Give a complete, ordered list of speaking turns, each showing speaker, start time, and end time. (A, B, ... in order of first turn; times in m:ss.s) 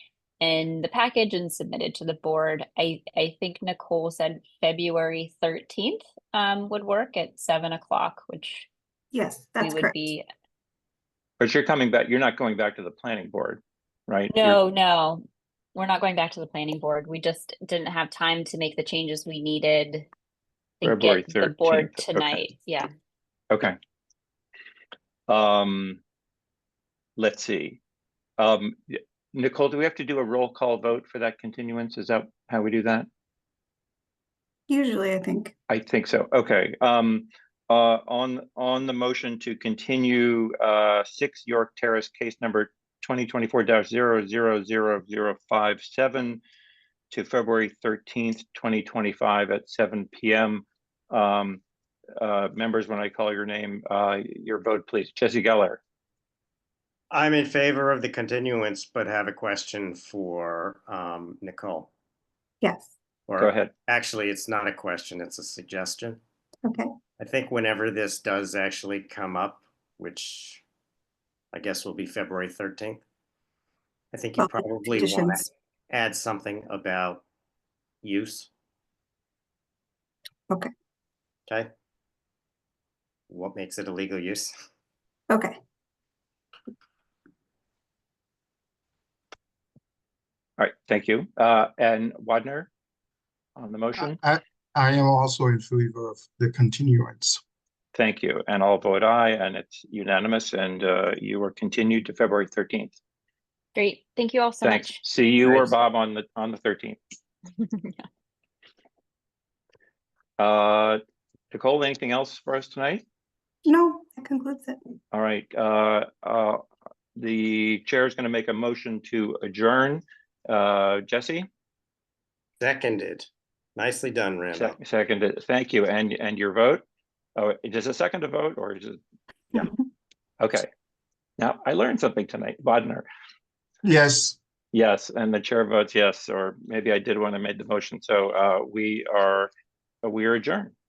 0:00.4-0:08.7 A
0:09.1-0:10.0 B
0:09.6-0:10.2 A
0:11.4-0:14.6 C
0:14.3-0:15.2 A
0:15.7-0:20.1 A
0:20.8-0:22.9 A
0:20.8-0:22.4 C
0:23.5-0:23.8 C
0:25.3-0:26.0 C
0:27.2-0:27.8 C
0:28.4-0:33.1 C
0:34.7-0:35.5 B
0:35.7-0:46.4 C
0:47.1-0:51.6 C
0:52.2-0:55.8 C
0:57.1-1:01.9 D
1:02.6-1:02.9 B
1:03.3-1:06.2 D
1:03.4-1:03.7 C
1:06.6-1:06.9 B
1:07.2-1:10.6 D
1:11.5-1:13.0 D
1:14.1-1:17.2 D
1:14.4-1:15.4 B
1:18.0-1:18.5 D
1:23.3-1:24.5 D
1:25.3-1:25.6 B
1:30.6-1:32.7 C
1:33.6-1:34.2 C
1:34.0-1:37.4 E
1:37.9-1:42.9 C
1:43.7-1:45.0 A
1:44.6-1:47.0 C
1:47.6-1:47.9 A
1:50.4-1:51.0 C
1:51.5-1:53.0 C
1:53.6-1:54.8 B
1:55.1-1:56.6 C
1:57.2-2:01.5 C
2:02.6-2:04.7 D
2:04.5-2:06.8 C
2:07.4-2:09.0 C
2:10.4-2:10.7 C
2:11.4-2:13.1 C
2:13.8-2:14.4 E
2:14.7-2:19.5 C
2:20.0-2:20.7 C